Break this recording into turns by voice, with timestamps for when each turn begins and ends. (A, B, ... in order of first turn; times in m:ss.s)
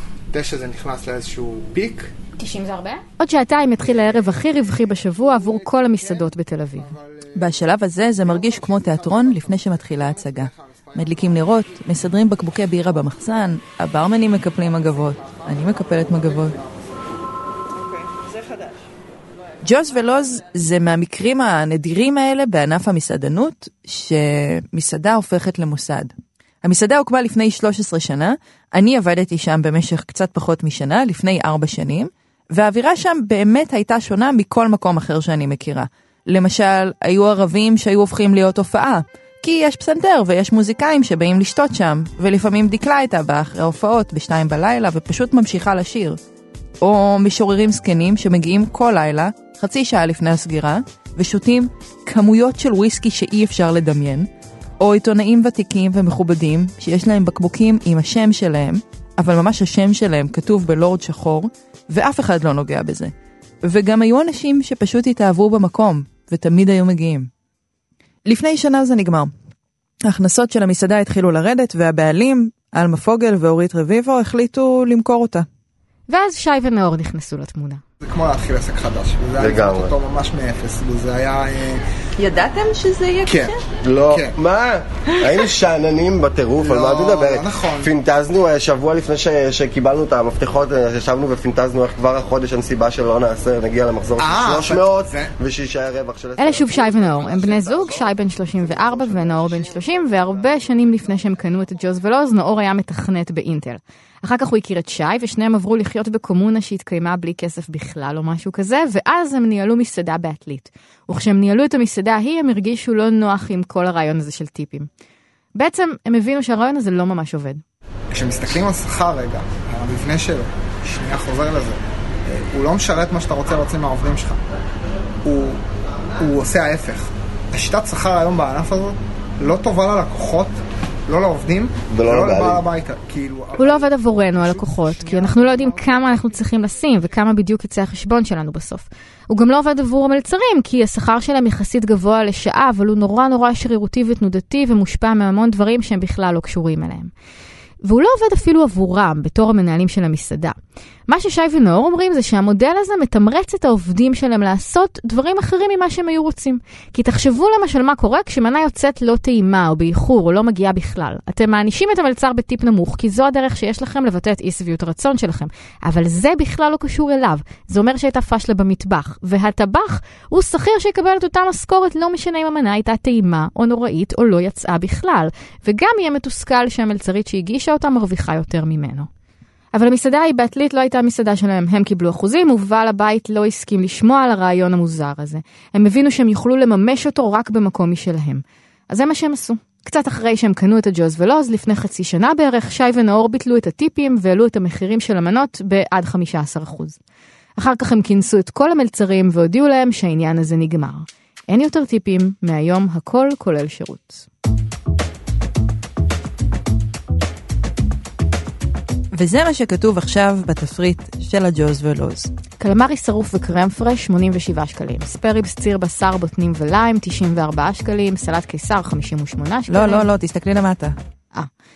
0:00.3-0:02.1 A
0:02.4-0:06.9 B
0:06.9-0:07.2 A
0:07.4-0:16.6 C
0:08.6-0:11.0 A
0:19.6-0:46.2 C
0:46.8-1:07.3 C
1:08.2-1:09.3 C
1:10.0-1:15.5 C
1:16.1-1:17.8 B
1:18.0-1:21.8 A
1:19.4-1:19.9 D
1:22.2-1:23.6 C
1:23.2-1:23.6 A
1:23.8-1:37.5 D
1:24.1-1:24.4 A
1:26.6-1:27.9 A
1:34.2-1:35.3 A
1:36.4-1:54.9 B
1:55.6-1:57.6 B
1:58.1-2:04.4 A
2:05.2-2:05.6 A
2:06.2-2:16.2 A
2:11.9-2:12.7 D
2:13.6-2:27.1 B
2:27.8-2:30.6 B
2:31.1-2:59.1 B
2:59.7-3:17.0 B
3:17.6-3:24.3 B
3:29.1-3:32.3 C
3:32.6-3:40.1 B
3:39.7-3:41.0 C